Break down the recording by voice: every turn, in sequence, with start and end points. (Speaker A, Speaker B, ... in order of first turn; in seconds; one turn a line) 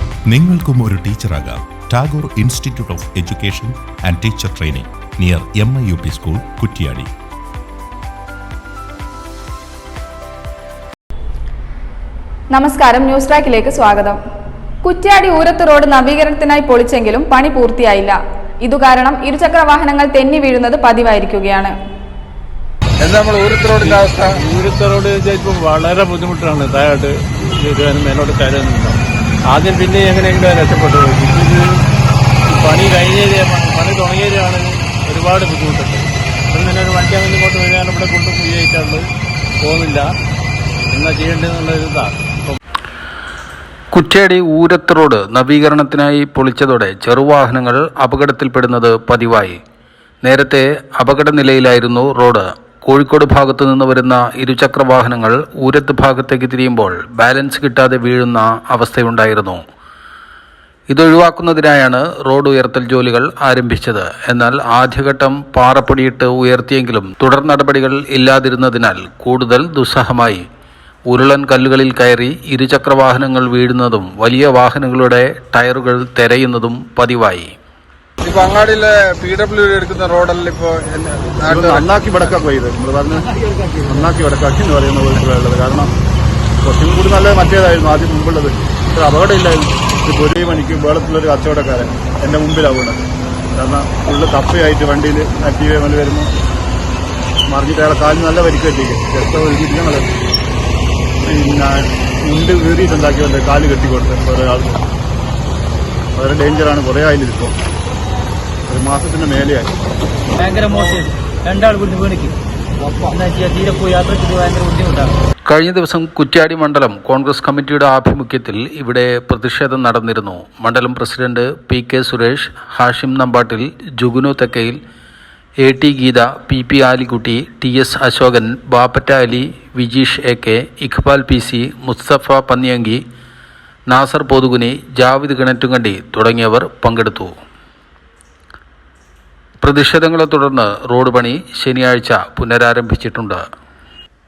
Speaker A: 0.3-7.1
Speaker B: 12.5-14.2
Speaker B: 14.8-21.7
Speaker C: 23.0-24.4
Speaker D: 23.8-29.0
Speaker D: 29.5-31.6
Speaker D: 32.5-39.1
Speaker D: 39.6-40.1
Speaker D: 40.8-42.6
Speaker E: 43.9-49.6
Speaker E: 50.2-59.6
Speaker E: 60.9-70.5
Speaker E: 71.1-77.5
Speaker C: 78.2-82.2
Speaker F: 81.5-85.9
Speaker F: 86.6-93.0
Speaker F: 93.6-96.3
Speaker F: 97.5-100.1
Speaker F: 101.3-104.8
Speaker F: 106.2-107.5
Speaker F: 108.7-109.7
Speaker G: 110.4-112.3
Speaker G: 113.0-114.9
Speaker E: 115.5-124.8
Speaker E: 125.6-133.0
Speaker E: 133.9-137.3
Speaker E: 139.6-143.4